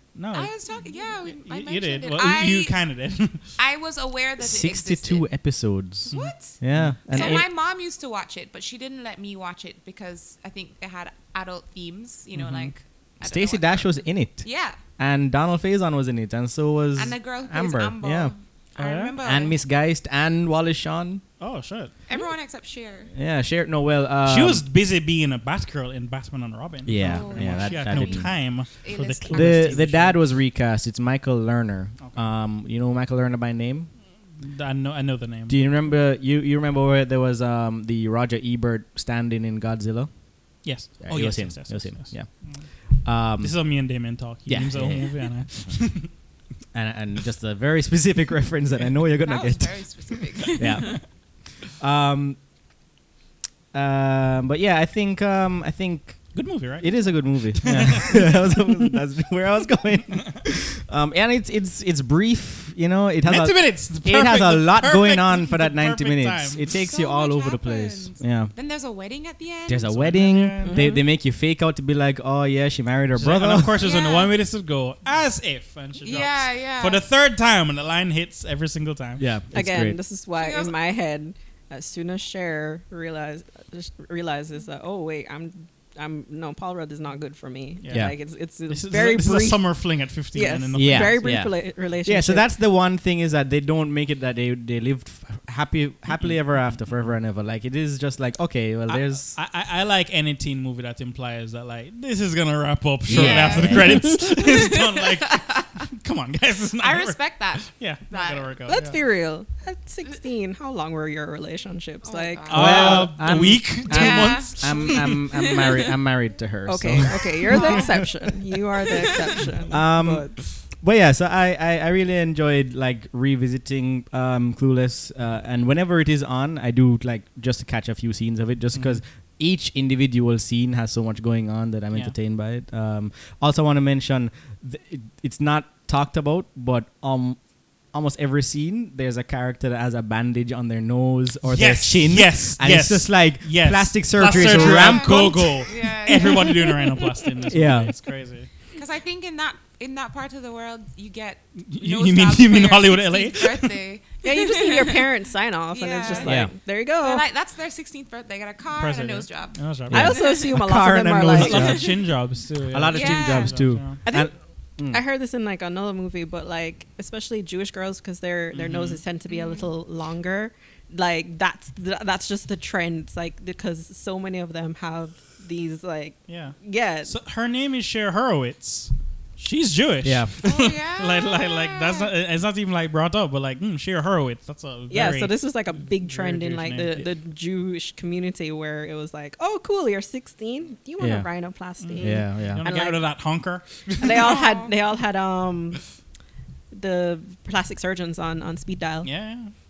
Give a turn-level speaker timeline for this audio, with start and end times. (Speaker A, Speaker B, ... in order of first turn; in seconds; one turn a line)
Speaker A: 0.1-3.5
Speaker B: 0.3-2.9
Speaker B: 3.5-5.3
Speaker C: 4.4-7.5
Speaker A: 6.1-7.3
Speaker B: 6.1-14.8
Speaker A: 12.3-12.7
Speaker C: 13.2-18.3
Speaker B: 16.9-19.6
Speaker A: 18.8-19.1
Speaker C: 19.2-21.2
Speaker A: 21.4-21.9
Speaker B: 22.1-23.1
Speaker C: 23.1-24.6
Speaker A: 24.2-30.2
Speaker C: 26.9-28.3
Speaker B: 26.9-29.8
Speaker C: 29.3-33.9
Speaker A: 34.4-35.6
Speaker C: 35.5-40.1
Speaker A: 40.6-42.7
Speaker C: 41.0-42.3
Speaker C: 42.9-43.6
Speaker A: 43.2-46.1
Speaker C: 44.5-45.1
Speaker C: 46.7-49.9
Speaker B: 49.2-51.0
Speaker C: 50.6-51.2
Speaker C: 51.8-52.4
Speaker C: 53.7-68.5
Speaker A: 56.3-58.5
Speaker A: 63.2-66.7
Speaker B: 66.7-69.9
Speaker C: 69.7-73.8
Speaker A: 69.9-70.8
Speaker D: 70.6-71.0
Speaker A: 73.1-79.2
Speaker B: 73.8-74.3
Speaker B: 76.0-77.0
Speaker C: 79.2-80.0
Speaker D: 79.5-89.7
Speaker B: 80.3-80.7
Speaker A: 87.8-88.1
Speaker A: 88.7-91.4
Speaker D: 90.3-92.5
Speaker C: 90.7-99.3
Speaker A: 96.1-97.1
Speaker A: 98.9-109.0
Speaker C: 103.1-104.0
Speaker B: 103.1-105.8
Speaker D: 103.9-104.2
Speaker B: 106.8-108.5
Speaker D: 108.7-113.1
Speaker B: 112.0-112.9
Speaker A: 112.5-115.5
Speaker C: 112.5-118.0
Speaker B: 113.9-115.9
Speaker D: 116.7-120.3
Speaker B: 117.5-118.0
Speaker C: 119.7-145.4
Speaker A: 128.7-129.0
Speaker A: 141.4-148.5
Speaker B: 144.2-147.5
Speaker C: 147.5-147.9
Speaker B: 148.7-155.1
Speaker A: 151.6-153.7
Speaker D: 154.2-157.2
Speaker B: 155.7-159.6
Speaker C: 156.2-156.5
Speaker A: 158.8-160.2
Speaker C: 159.9-162.0
Speaker D: 159.9-161.8
Speaker B: 160.1-160.5
Speaker A: 161.3-164.0
Speaker B: 161.6-162.0
Speaker C: 162.7-165.0
Speaker B: 162.9-163.6
Speaker D: 164.1-164.3
Speaker D: 164.9-177.1
Speaker A: 168.5-169.0
Speaker B: 169.3-169.7
Speaker A: 176.3-187.1
Speaker C: 180.0-180.3
Speaker B: 180.4-182.1
Speaker D: 184.9-193.1
Speaker C: 191.0-191.3
Speaker A: 191.8-194.3
Speaker C: 192.0-192.6
Speaker D: 194.0-195.8
Speaker B: 194.1-194.7
Speaker D: 196.7-199.1
Speaker A: 199.0-199.5